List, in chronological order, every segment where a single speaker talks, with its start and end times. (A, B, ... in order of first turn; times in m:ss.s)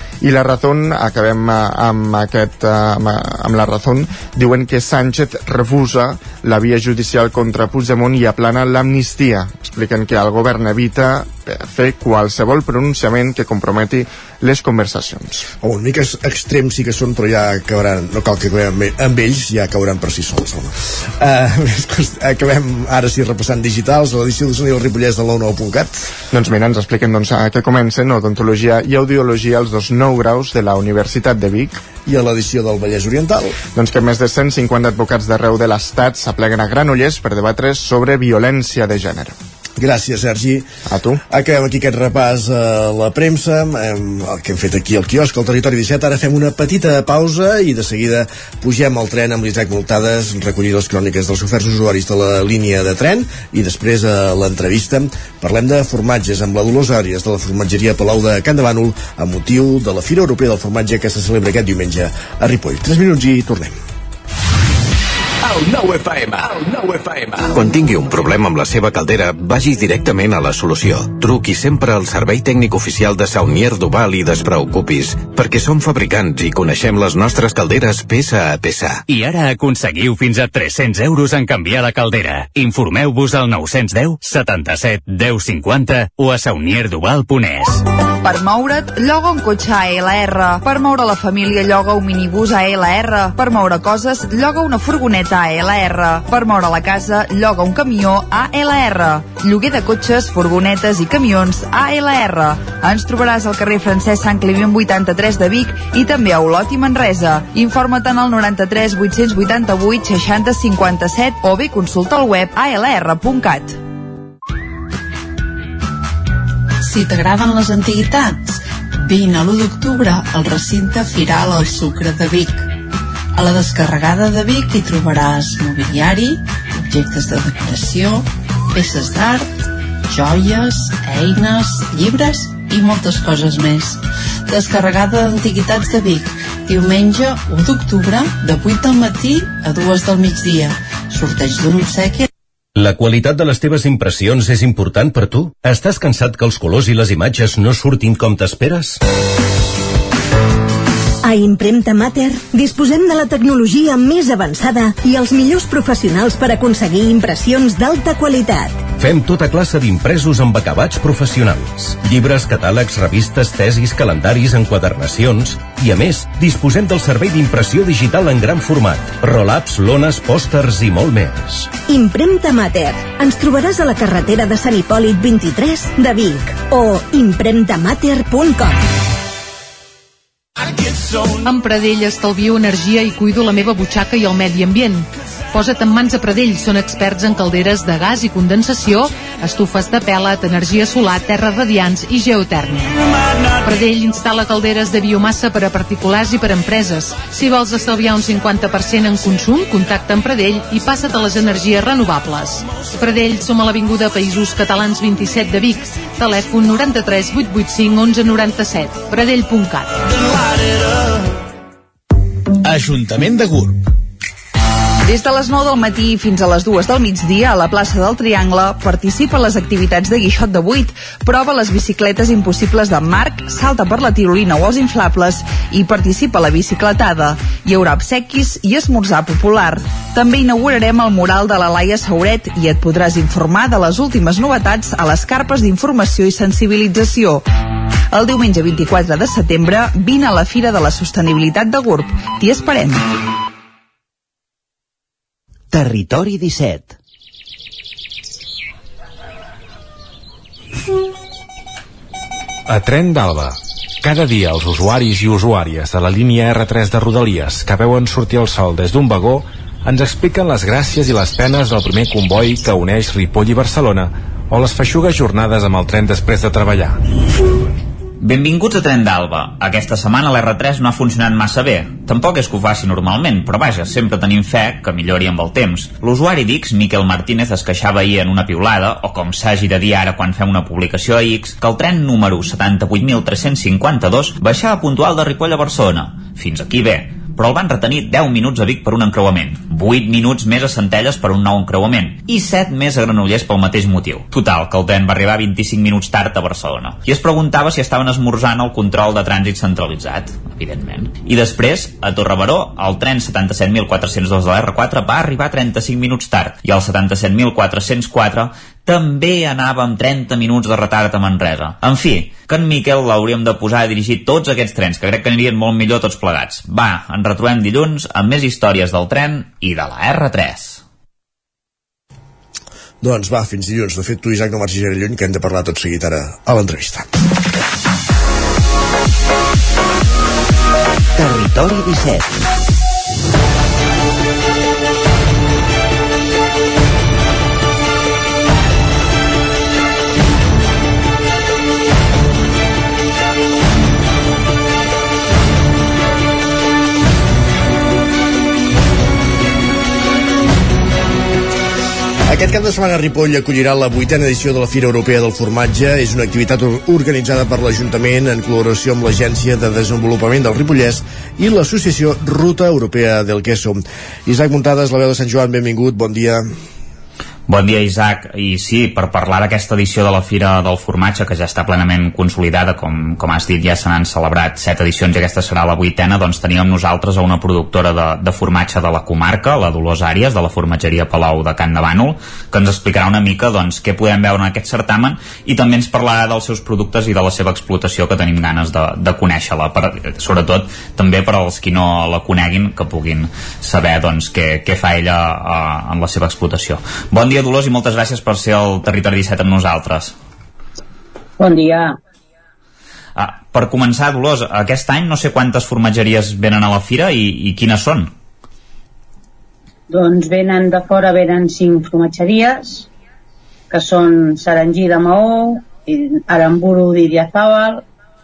0:00.2-0:15.5 A
0:15.6-0:26.1 B
0:26.3-0:31.8 A
0:32.0-0:33.6 B
0:33.7-0:39.3 A
0:39.8-0:40.7 B
0:40.8-0:41.2 A
0:41.3-1:03.7 B
1:05.7-1:19.0 C
1:19.1-1:27.8 D
1:28.2-1:53.8 E
1:56.8-2:02.7 F
2:03.3-2:09.5 F
2:10.1-2:22.3 F
2:22.8-2:29.0 G
2:31.2-2:38.9 H
2:39.0-2:51.8 G
2:51.8-2:58.9 H
3:01.3-3:13.0 I
3:13.6-3:30.0 I
3:35.0-3:57.5 E
3:58.1-4:03.1 E
4:05.7-4:06.9 C
4:12.7-4:27.0 J
4:28.2-5:20.8 K
5:23.0-5:27.1 B
5:31.2-5:32.4 C
5:52.3-6:06.5 B
6:07.5-6:40.1 K
6:41.4-6:42.0 L
6:43.2-6:48.1 K
6:49.9-6:52.9 L
6:53.7-6:57.8 L